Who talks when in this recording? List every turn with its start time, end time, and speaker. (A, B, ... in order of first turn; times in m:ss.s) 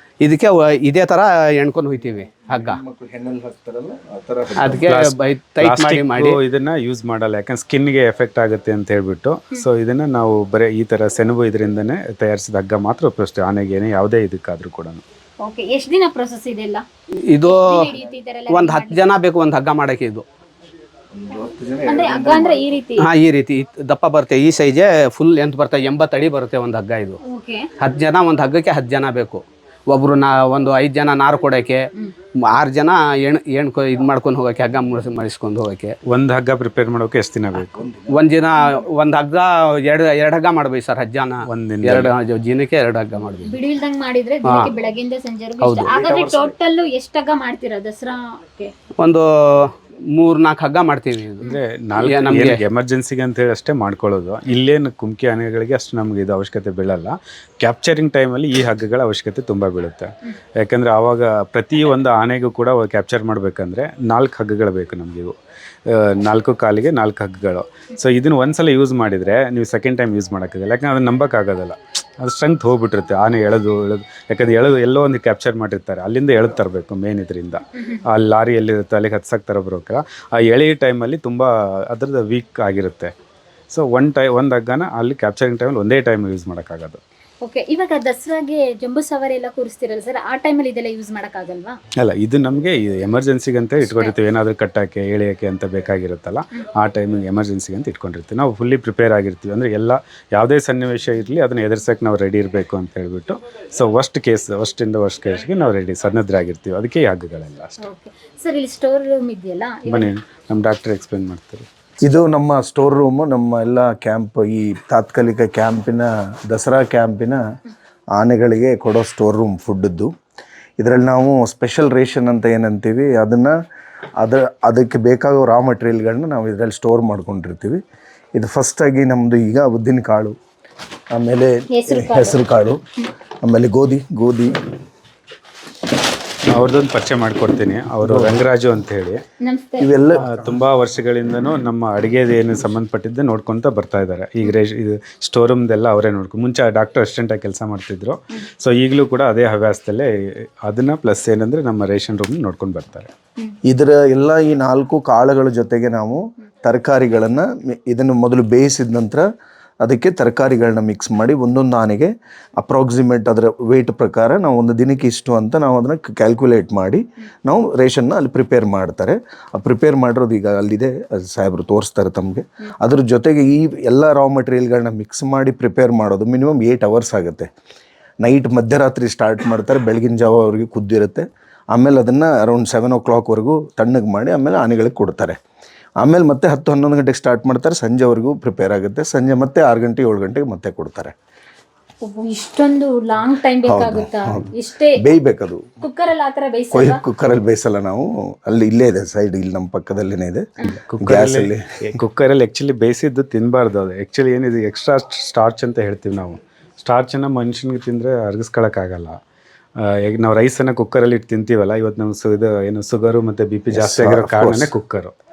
0:00.2-0:02.8 A
0:02.6-0:04.9 B
0:04.6-0:06.4 A
0:04.8-0:15.0 C
0:15.4-0:16.8 D
0:17.3-0:17.9 A
0:17.4-0:19.0 D
0:18.5-0:20.2 A
0:21.1-0:22.7 B
0:21.9-0:23.1 D
0:23.0-0:27.2 A
0:27.2-0:27.7 D
0:27.8-0:31.8 A
0:32.5-0:35.9 A
0:36.1-0:37.8 C
0:37.6-0:38.3 B
0:38.1-0:43.6 A
0:41.4-0:42.1 C
0:43.4-0:48.7 D
0:44.4-0:44.7 A
0:45.6-0:45.9 A
0:45.9-0:46.6 B
0:49.0-0:52.6 A
0:51.4-1:23.1 C
1:23.7-1:27.0 C
1:27.4-1:31.8 D
1:32.0-1:47.8 C
1:33.8-1:34.1 D
1:47.8-1:50.1 D
1:49.9-1:51.6 C
1:52.0-1:57.4 B
1:58.2-2:00.1 B
2:00.8-2:03.5 B
2:04.2-2:07.8 B
2:08.4-2:10.4 B
2:11.1-2:12.8 B
2:11.8-2:12.4 D
2:13.4-2:14.6 B
2:16.5-2:19.2 C
2:18.0-2:18.4 B
2:19.4-2:20.0 D
2:19.8-2:20.4 B
2:20.2-2:33.1 C
2:33.6-2:39.2 B
2:39.8-2:57.5 B
2:58.2-3:05.4 B
3:06.0-3:11.1 B
3:12.0-3:15.0 D
3:13.6-3:15.6 B
3:15.8-3:17.0 D
3:16.7-3:21.6 B
3:20.8-3:29.2 C
3:29.8-3:35.1 C
3:33.7-3:34.7 B